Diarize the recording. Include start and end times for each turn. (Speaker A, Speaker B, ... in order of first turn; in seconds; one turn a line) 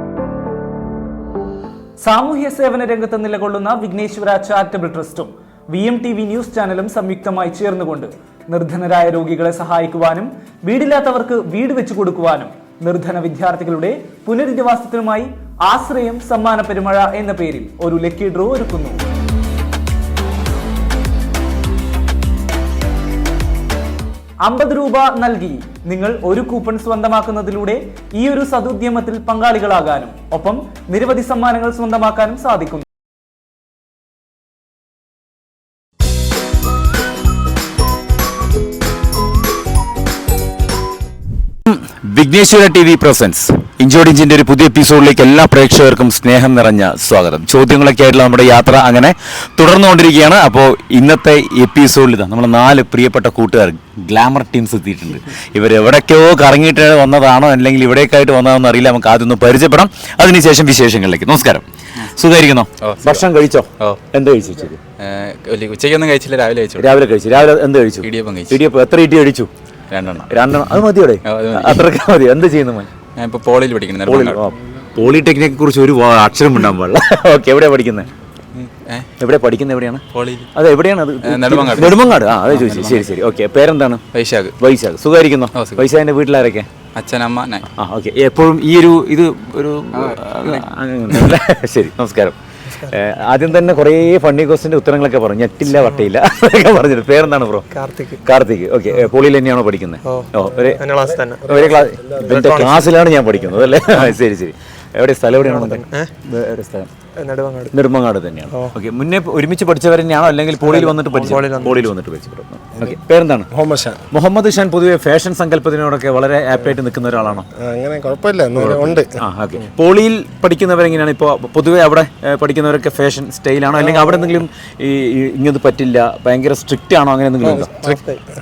Speaker A: 2.0-19.0
Speaker A: 24.4-32.8
Speaker B: 41.6-64.8
Speaker C: 62.8-63.2
Speaker C: 65.0-66.9
Speaker B: 66.8-69.5
Speaker C: 68.0-68.6
Speaker C: 69.9-70.3
Speaker B: 70.3-72.9
Speaker C: 71.2-71.9
Speaker C: 73.0-74.4
Speaker B: 74.0-78.1
Speaker C: 78.5-79.1
Speaker B: 79.2-80.0
Speaker C: 80.1-80.5
Speaker B: 80.5-84.0
Speaker C: 81.2-83.1
Speaker C: 84.1-84.6
Speaker B: 84.6-86.7
Speaker C: 85.5-85.9
Speaker C: 86.9-87.7
Speaker B: 87.7-97.7
Speaker C: 89.9-90.7
Speaker D: 95.7-96.1
Speaker D: 97.7-98.2
Speaker B: 98.2-100.8
Speaker D: 100.0-101.5
Speaker E: 101.0-102.3
Speaker B: 101.5-106.9
Speaker D: 102.2-102.9
Speaker D: 103.9-104.1
Speaker D: 105.4-106.2
Speaker D: 107.2-107.8
Speaker B: 107.7-113.5
Speaker D: 108.5-108.8
Speaker D: 110.6-111.9
Speaker E: 113.5-114.0
Speaker B: 114.1-117.5
Speaker E: 117.5-119.1
Speaker B: 118.6-127.9
Speaker E: 123.7-124.4
Speaker D: 127.4-128.2
Speaker E: 127.5-127.9